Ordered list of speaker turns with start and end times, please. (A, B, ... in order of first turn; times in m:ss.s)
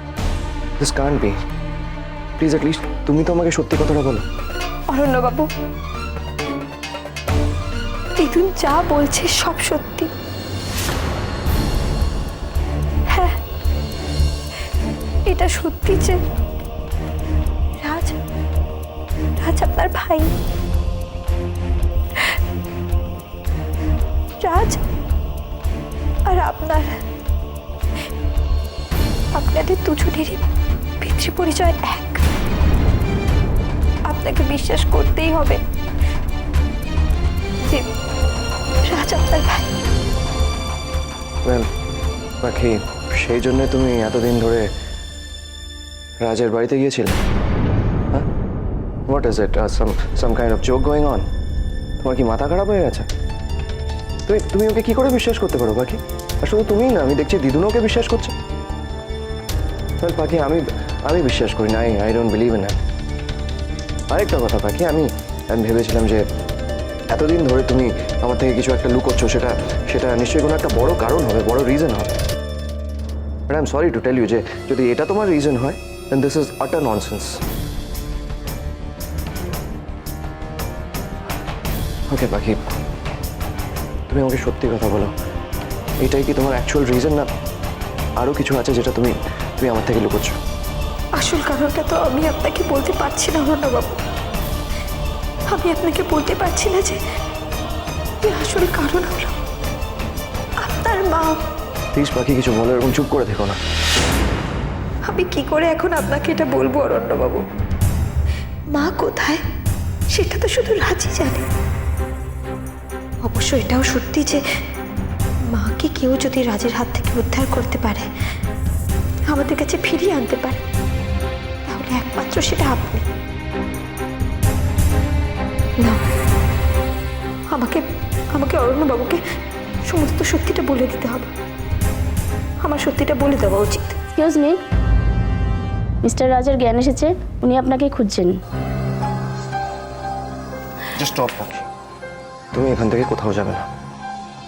0:00.8-0:01.4 A
0:02.4-0:04.2 A
0:04.9-0:05.5 B
0:08.2-0:10.1 B
0:13.1-0:13.4 B
0:15.2-0:16.2 B
0:17.8-0:18.2 B
0:19.4-0:20.3 B
0:24.4-0:24.8 B
0:26.3-0:27.0 B
0:29.3-0:30.4 B
0:31.0-0:32.2 B
0:34.1-0:35.6 B
0:38.9-0:39.7 B
0:42.4-0:44.7 A
0:46.2-0:47.1 A
0:49.1-0:51.3 A
0:52.0-0:53.1 A
0:54.2-0:58.3 A
1:00.0-1:02.8 A
1:04.1-1:06.2 A
1:07.1-1:12.2 A
1:13.5-1:17.4 A
1:22.1-1:22.6 A
1:24.1-1:25.1 A
1:26.0-1:27.3 A
1:28.2-1:30.4 A
1:31.2-1:34.0 B
1:35.5-1:37.0 B
1:38.2-1:39.4 B
1:40.6-1:41.4 B
1:41.9-1:43.6 A
1:45.1-1:47.4 B
1:48.7-1:49.4 B
1:50.1-1:51.4 B
1:53.2-1:54.4 B
1:55.5-1:58.1 B
1:59.3-2:00.6 B
2:01.6-2:03.0 B
2:07.5-2:09.2 B
2:09.8-2:11.3 B
2:12.6-2:14.0 B
2:14.2-2:14.6 C
2:16.0-2:18.4 C
2:20.9-2:21.7 A
2:22.5-2:23.7 A